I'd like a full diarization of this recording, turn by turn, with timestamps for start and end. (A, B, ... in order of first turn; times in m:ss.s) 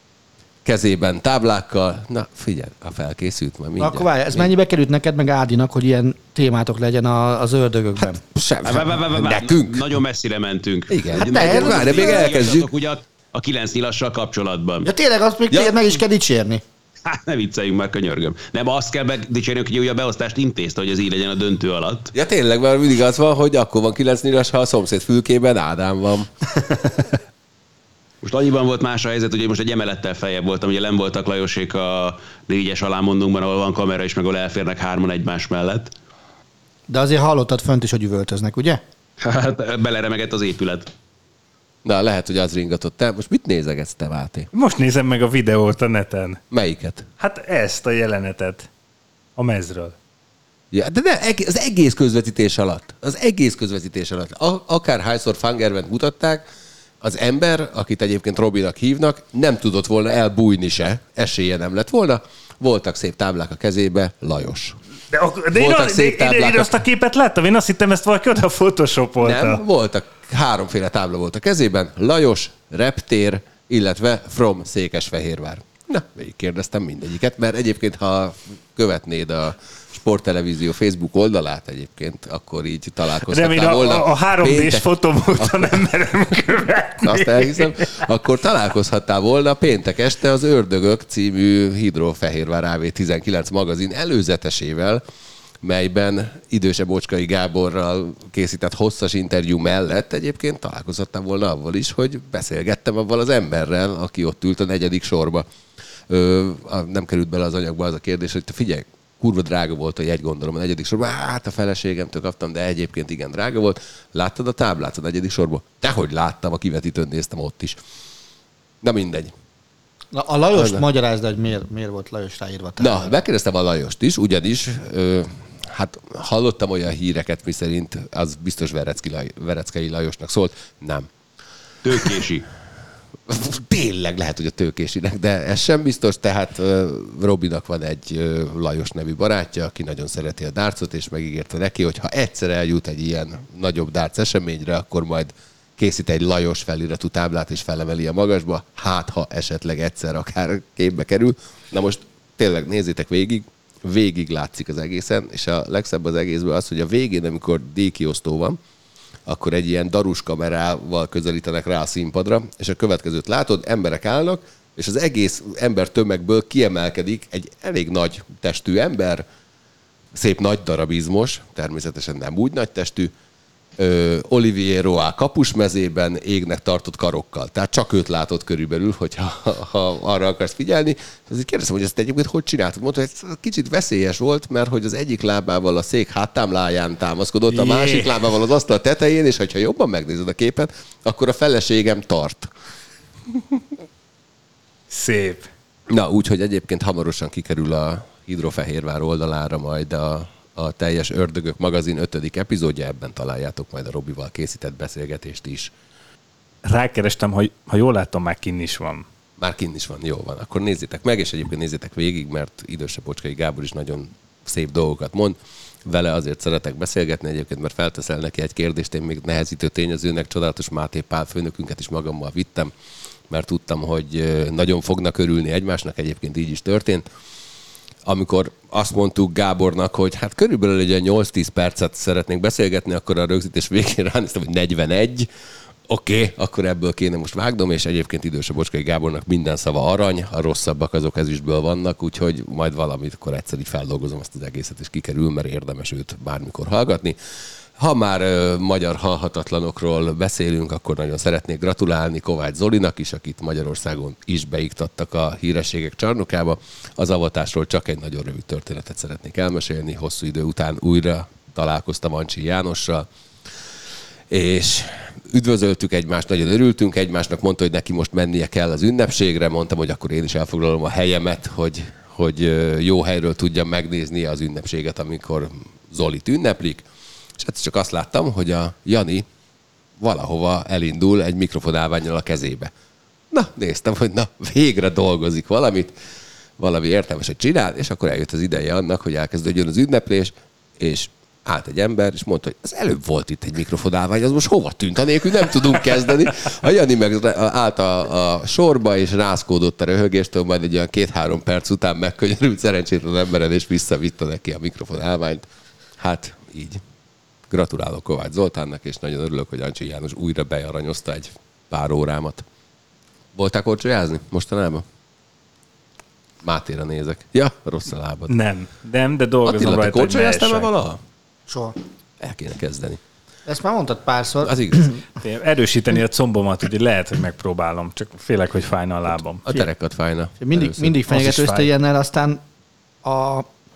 0:00.6-0:04.5 A
0:03.8-0:08.2 B
0:08.0-0:09.9 A
0:08.6-0:14.9 C
0:10.9-0:12.7 A
0:11.1-0:12.3 B
0:14.8-0:16.6 B
0:15.5-0:15.8 A
0:17.1-0:22.1 C
0:22.1-0:26.3 A
0:28.2-0:35.9 C
0:36.9-0:38.8 B
0:39.2-0:40.9 C
0:41.8-0:44.5 A
0:44.5-0:46.4 D
0:46.5-0:47.1 A
0:47.2-0:48.7 D
0:49.4-0:50.0 D
0:50.7-0:56.4 A
0:57.0-1:04.8 A
1:05.1-1:09.6 D
1:05.5-1:06.8 A
1:09.2-1:25.8 A
1:23.3-1:27.9 D
1:27.0-1:35.0 A
1:35.6-1:45.5 A
1:46.1-1:57.8 A
1:58.8-1:59.3 A
2:00.1-2:03.2 B
2:00.5-2:00.8 A
2:02.8-2:11.1 A
2:11.8-2:12.5 C
2:13.3-2:38.6 A
2:39.3-2:49.2 A
2:50.1-2:53.1 A
2:53.8-3:12.5 A
3:07.5-3:08.2 D
3:14.9-3:15.5 D
3:15.9-3:25.7 A
3:26.6-3:29.0 D
3:29.4-3:42.7 A
3:43.3-3:47.0 A
3:48.0-3:55.3 A
3:55.9-4:07.2 A
4:07.8-4:23.1 A
4:24.3-4:36.9 A
4:37.4-4:39.3 A
4:40.0-4:42.7 A
4:43.3-4:46.0 A
4:46.6-5:06.8 A
5:07.5-5:12.4 A
5:13.4-5:14.8 A
5:16.4-5:18.4 A
5:18.3-5:20.7 D
5:19.4-5:21.0 A
5:21.5-5:21.8 B
5:22.2-5:23.0 A
5:23.5-5:25.0 B
5:24.4-5:24.9 A
5:25.2-5:29.4 D
5:29.4-5:31.0 A
5:30.4-5:32.4 B
5:31.1-5:31.7 D
5:33.0-5:33.5 B